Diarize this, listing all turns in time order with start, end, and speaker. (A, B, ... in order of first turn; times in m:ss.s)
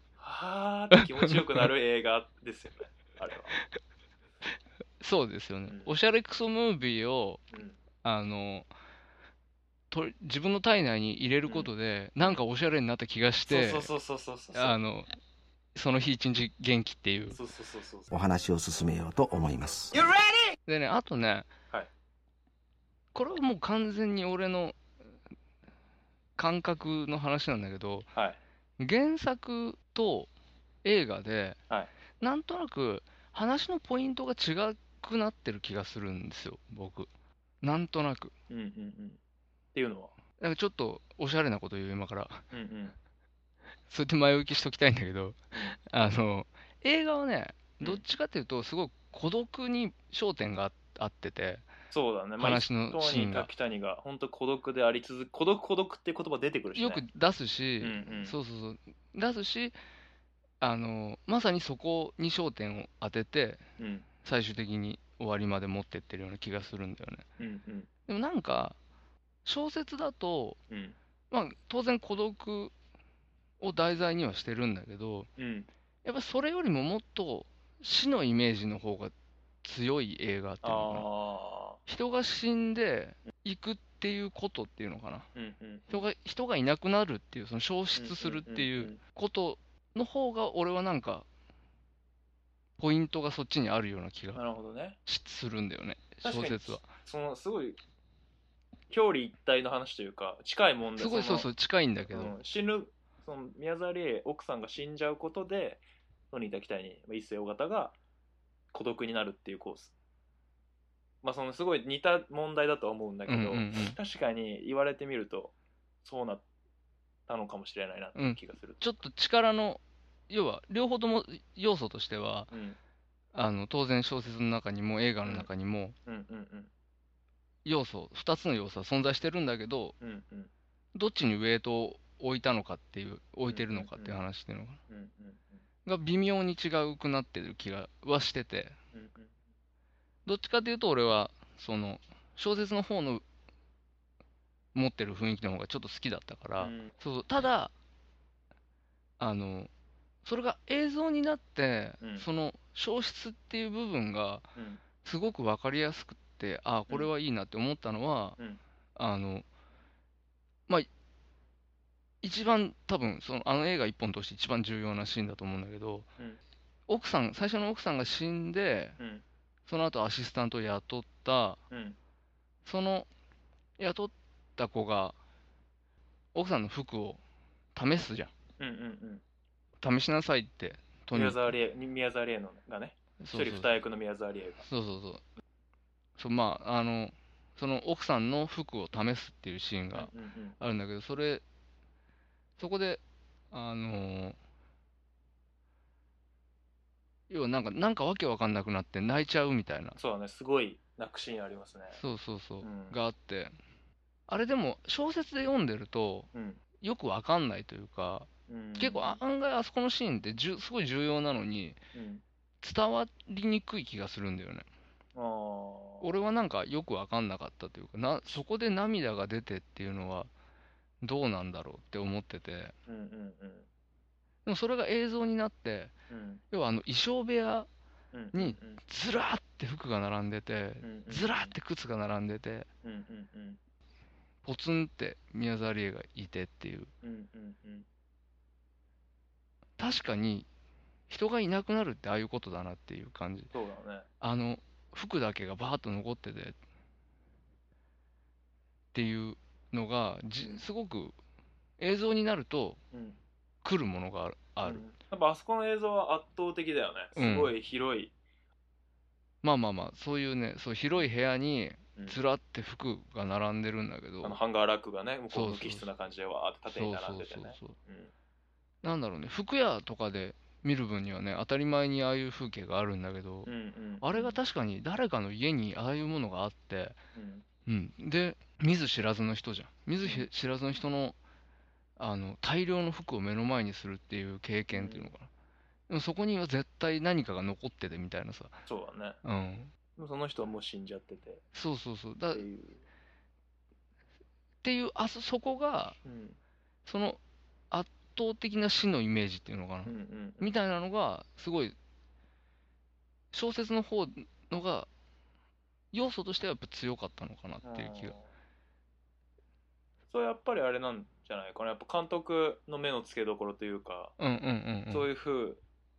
0:00.2-0:03.6 A
0:01.0-0:01.3 B
0:05.0-0:07.4 B
0:05.6-0:06.0 A
0:07.5-0:07.8 A
0:08.0-0:08.7 B
0:09.9-0:13.9 B
0:13.5-0:14.8 A
0:14.5-0:15.1 B
0:15.7-0:17.4 B
0:17.3-0:18.1 A
0:18.1-0:20.1 C
0:20.6-0:21.5 B
0:23.1-0:24.8 B
0:26.4-0:28.1 B
0:28.8-0:30.3 B
0:30.8-0:31.6 B
0:32.2-0:37.1 B
0:37.6-0:38.3 B
0:38.5-0:39.2 A
0:39.7-0:40.1 A
0:40.4-0:42.4 B
0:42.5-0:42.9 A
0:43.9-0:51.6 B
0:51.9-0:57.0 A
0:52.4-0:53.5 B
0:56.7-0:59.8 B
0:57.8-0:58.4 A
1:00.6-1:03.6 B
1:03.8-1:04.1 A
1:04.2-1:07.2 B
1:07.4-1:07.9 A
1:08.1-1:08.8 B
1:09.4-1:10.6 B
1:10.7-1:11.0 A
1:11.3-1:12.7 B
1:13.6-1:15.3 B
1:15.4-1:15.7 A
1:16.0-1:21.1 B
1:20.6-1:21.8 A
1:21.9-1:25.3 B
1:25.3-1:26.0 A
1:25.9-1:31.2 B
1:28.0-1:29.0 A
1:32.8-1:34.4 B
1:34.3-1:35.0 A
1:35.0-1:36.8 B
1:36.2-1:37.8 A
1:38.9-1:41.5 A
1:41.0-1:42.3 B
1:42.1-1:48.0 A
1:48.7-1:49.9 A
1:51.2-1:56.4 A
1:53.3-1:54.0 B
1:57.3-1:59.0 A
1:58.2-2:02.5 B
2:02.5-2:02.8 A
2:03.3-2:05.9 B
2:06.0-2:06.7 A
2:07.6-2:09.9 B
2:10.0-2:10.5 A
2:10.9-2:14.8 B
2:13.5-2:14.2 A
2:14.9-2:15.6 A
2:15.8-2:18.8 B
2:18.9-2:19.3 A
2:20.2-2:23.2 B
2:24.7-2:27.7 B
2:26.6-2:26.9 A
2:29.2-2:29.7 B
2:30.2-2:34.5 B
2:32.0-2:32.2 A
2:34.6-2:34.8 A
2:35.0-2:38.4 B
2:39.0-2:39.4 B
2:42.2-2:46.1 B
2:46.9-2:49.0 B
2:49.7-2:51.6 B
2:51.7-2:52.0 A
2:52.6-2:53.1 B
2:53.8-2:55.2 B
2:56.3-2:57.2 B
2:57.7-2:58.3 B
2:58.6-2:59.2 A
2:59.8-3:01.5 B
3:01.1-3:04.7 A
3:03.2-3:03.7 B
3:04.6-3:05.2 B
3:06.2-3:11.4 B
3:09.9-3:10.6 A
3:12.6-3:14.4 B
3:17.3-3:20.0 B
3:20.0-3:22.0 A
3:21.9-3:23.5 B
3:22.6-3:23.0 A
3:24.3-3:26.3 B
3:26.3-3:26.6 A
3:26.8-3:31.8 B
3:28.5-3:29.2 A
3:31.9-3:32.2 A
3:32.6-3:34.6 B
3:35.2-3:36.1 A
3:36.0-3:40.3 B
3:41.0-3:42.7 B
3:42.9-3:43.7 A
3:44.4-3:45.9 B
3:46.1-3:46.4 A
3:46.5-3:47.7 B
3:48.1-3:48.8 A
3:48.3-3:52.7 B
3:50.8-3:51.5 A
3:52.8-3:53.6 A
3:54.4-3:56.9 B
3:57.0-3:57.8 A
3:59.8-4:00.5 B
4:01.1-4:03.5 B
4:03.5-4:04.0 A
4:04.2-4:06.6 B
4:08.9-4:11.1 B
4:11.8-4:12.8 B
4:12.9-4:13.2 A
4:13.6-4:14.8 B
4:14.6-4:18.1 A
4:17.1-4:17.5 B
4:19.4-4:24.4 B
4:24.2-4:28.1 A
4:25.3-4:25.8 B
4:26.7-4:27.7 B
4:28.8-4:33.5 B
4:33.4-4:34.4 A
4:34.0-4:37.0 B
4:37.1-4:37.4 A
4:37.6-4:41.2 B
4:40.0-4:40.3 A
4:42.0-4:45.3 B
4:44.7-4:45.1 A
4:45.9-4:48.6 B
4:48.6-4:49.2 A
4:49.2-4:49.7 B
4:50.0-4:51.4 A
4:51.5-4:52.4 B
4:52.3-4:52.8 A
4:54.6-4:56.0 B
4:56.0-4:56.4 A
4:56.8-4:57.2 B
4:57.7-5:01.8 B
4:59.8-5:00.6 A
5:03.3-5:04.9 B
5:05.9-5:08.1 B
5:07.6-5:08.3 A
5:10.1-5:14.1 A
5:14.2-5:15.1 B
5:14.9-5:15.6 A